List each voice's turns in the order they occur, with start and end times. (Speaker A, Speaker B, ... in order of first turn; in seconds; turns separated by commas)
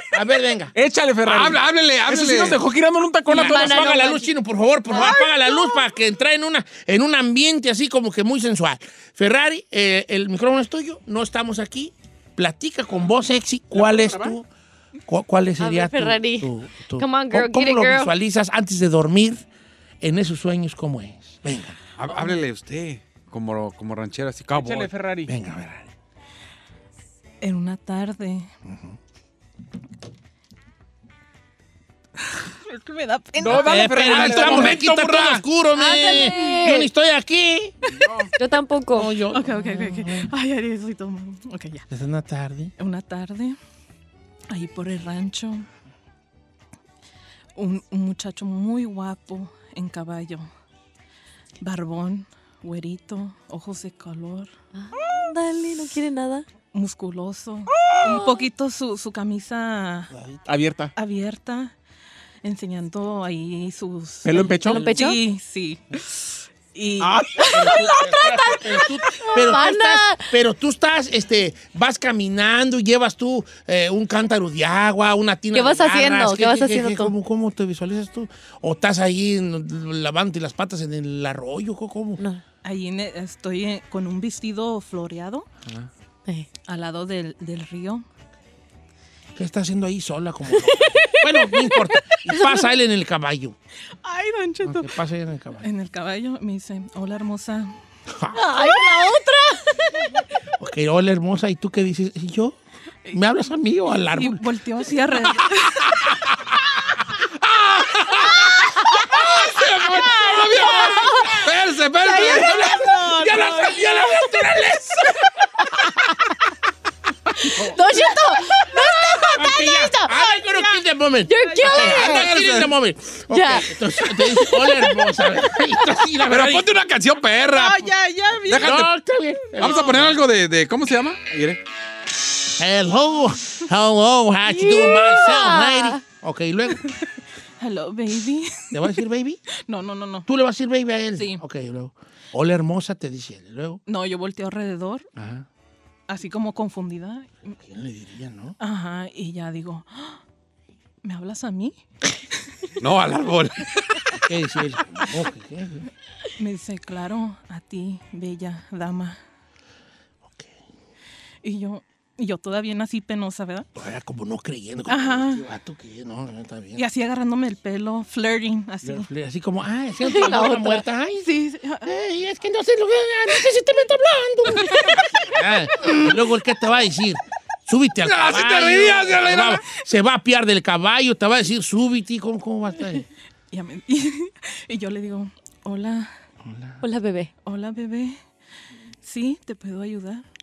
Speaker A: 0.1-0.7, Speaker B: 0.7-4.1, Speaker C: 1.2-2.6, Speaker A: 3.3-14.5, Speaker D: 3.4-4.2, Speaker E: 4.9-5.8, Speaker B: 13.7-14.3, Speaker A: 15.1-19.4, Speaker D: 15.6-18.1, Speaker A: 20.0-21.8, Speaker C: 22.0-24.9, Speaker B: 24.5-25.3, Speaker A: 25.3-25.9, Speaker E: 27.4-28.5, Speaker A: 28.7-28.9, Speaker E: 32.3-34.0, Speaker B: 33.4-35.4, Speaker A: 33.5-37.7, Speaker C: 34.0-35.4, Speaker D: 35.7-36.9, Speaker E: 36.1-36.6, Speaker E: 37.8-38.1, Speaker D: 38.4-39.1, Speaker A: 38.9-40.3, Speaker E: 39.3-41.8, Speaker A: 41.9-42.7, Speaker E: 42.8-43.5, Speaker E: 44.5-45.6, Speaker E: 47.5-50.5, Speaker E: 51.6-54.5, Speaker D: 54.7-56.5, Speaker E: 56.7-60.1, Speaker A: 60.1-60.4, Speaker B: 60.5-60.9, Speaker E: 61.0-61.7, Speaker E: 62.4-69.5, Speaker B: 64.2-64.8, Speaker D: 64.7-65.2, Speaker B: 67.0-67.5, Speaker A: 67.5-82.2, Speaker D: 69.3-70.3, Speaker D: 75.5-77.1, Speaker E: 82.6-85.5, Speaker E: 86.6-88.0, Speaker A: 89.3-93.5, Speaker D: 90.8-91.8, Speaker E: 94.0-94.9, Speaker A: 94.6-95.7, Speaker E: 95.6-97.7, Speaker A: 98.1-98.4, Speaker D: 98.3-99.8, Speaker E: 98.5-99.2, Speaker A: 100.6-102.6, Speaker A: 103.1-104.4, Speaker E: 104.1-106.1, Speaker C: 107.4-112.6, Speaker E: 110.0-111.4, Speaker D: 110.5-111.3, Speaker A: 110.6-111.0, Speaker E: 112.0-114.0, Speaker A: 112.1-115.2, Speaker D: 117.4-120.2, Speaker A: 117.5-117.8, Speaker A: 119.3-126.7, Speaker D: 121.3-122.2, Speaker E: 121.4-122.0, Speaker C: 121.8-122.7, Speaker D: 123.3-124.9, Speaker C: 126.2-127.9, Speaker E: 127.5-128.7, Speaker C: 128.4-128.9, Speaker A: 128.6-130.2, Speaker E: 129.6-130.0, Speaker C: 129.6-131.6, Speaker A: 132.6-136.9, Speaker D: 134.5-136.0, Speaker E: 137.6-139.0, Speaker A: 138.7-139.4, Speaker E: 139.7-140.3, Speaker A: 140.3-143.8, Speaker E: 141.2-141.4, Speaker E: 143.9-145.1, Speaker A: 145.2-145.4, Speaker E: 146.1-147.5, Speaker A: 147.6-148.6, Speaker E: 148.6-150.2, Speaker E: 151.0-151.8, Speaker C: 152.8-154.2, Speaker A: 154.2-155.8, Speaker E: 156.4-159.2, Speaker E: 161.4-163.7, Speaker A: 163.8-166.8, Speaker E: 164.9-165.4, Speaker E: 166.7-169.1, Speaker A: 168.8-171.3, Speaker D: 170.1-170.8, Speaker E: 170.2-170.5, Speaker E: 171.2-171.9, Speaker A: 171.8-183.1, Speaker E: 174.7-175.0, Speaker C: 178.0-179.6, Speaker E: 183.5-186.1, Speaker A: 186.4-186.8, Speaker D: 186.8-187.3, Speaker E: 187.4-188.2, Speaker E: 189.0-190.2